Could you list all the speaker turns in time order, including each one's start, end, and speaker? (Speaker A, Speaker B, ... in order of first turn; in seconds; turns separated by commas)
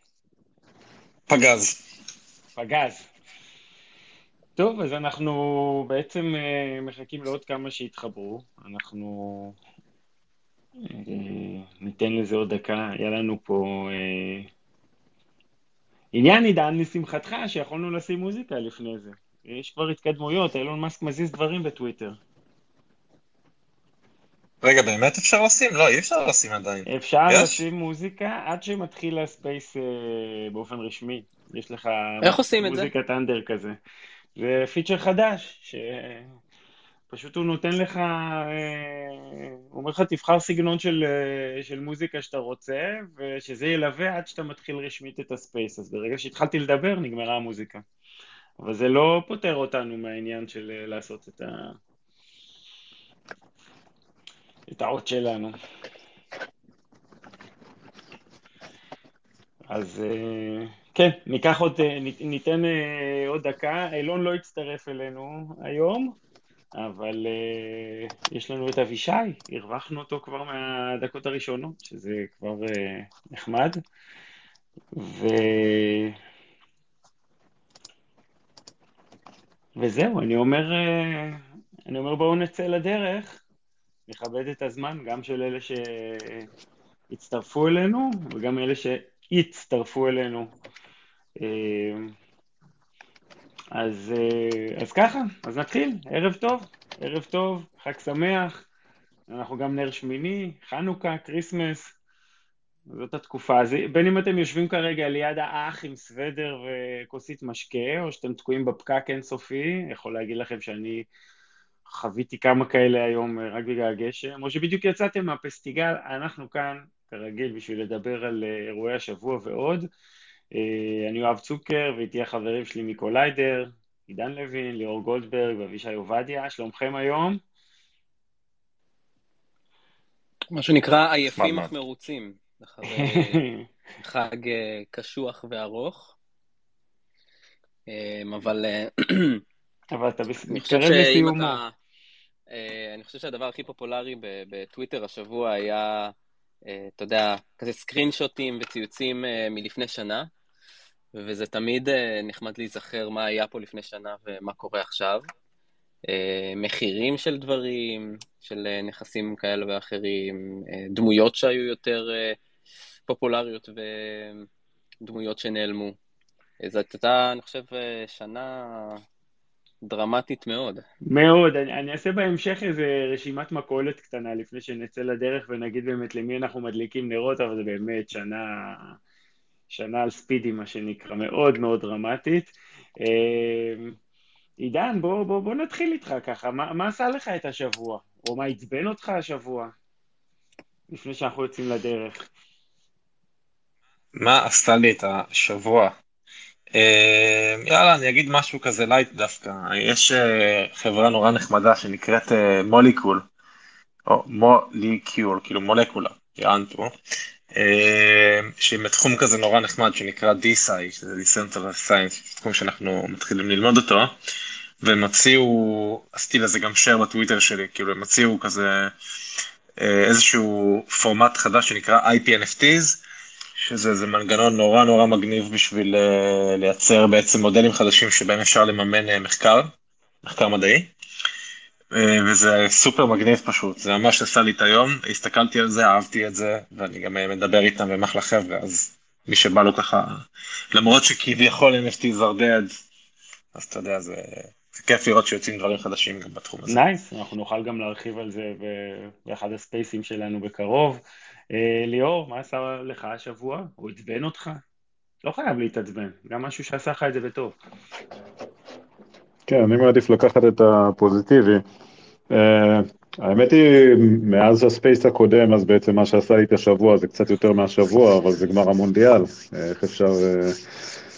Speaker A: 1.3-1.8, Speaker B: 2.5-3.1, Speaker B: 4.6-9.6, Speaker B: 10.8-14.5, Speaker B: 16.1-22.2, Speaker A: 24.6-27.6, Speaker B: 26.9-33.8, Speaker C: 32.2-32.9, Speaker B: 34.4-36.3, Speaker B: 37.1-47.8, Speaker B: 48.6-51.8, Speaker B: 54.7-55.5, Speaker B: 59.7-66.2, Speaker B: 66.8-73.8, Speaker B: 74.9-76.1, Speaker B: 79.8-83.4, Speaker B: 84.1-86.5, Speaker B: 87.1-90.5, Speaker B: 91.4-92.1, Speaker B: 93.8-98.6, Speaker B: 99.3-102.0, Speaker B: 102.9-111.1, Speaker B: 111.9-119.9, Speaker B: 120.5-127.4, Speaker C: 130.5-133.4, Speaker B: 132.8-133.6, Speaker C: 134.0-136.1, Speaker C: 137.9-139.4, Speaker B: 139.9-141.6, Speaker C: 140.5-141.7, Speaker C: 142.5-146.1, Speaker C: 146.7-150.3, Speaker C: 151.1-155.3, Speaker C: 156.1-162.4, Speaker C: 163.1-164.5, Speaker C: 165.0-166.0, Speaker C: 166.6-169.0, Speaker C: 169.8-170.8, Speaker B: 171.1-178.9, Speaker B: 179.7-183.9, Speaker B: 184.6-189.7, Speaker B: 190.9-192.2, Speaker A: 194.2-195.9, Speaker A: 196.7-203.2, Speaker A: 204.1-206.9, Speaker A: 207.5-214.1, Speaker A: 214.8-218.9, Speaker A: 219.8-223.0, Speaker A: 223.6-229.7, Speaker A: 230.2-230.9, Speaker A: 231.9-242.7, Speaker A: 243.5-246.8, Speaker B: 246.7-251.0, Speaker B: 251.5-254.6, Speaker B: 255.2-257.6, Speaker D: 259.5-261.6, Speaker D: 262.3-270.6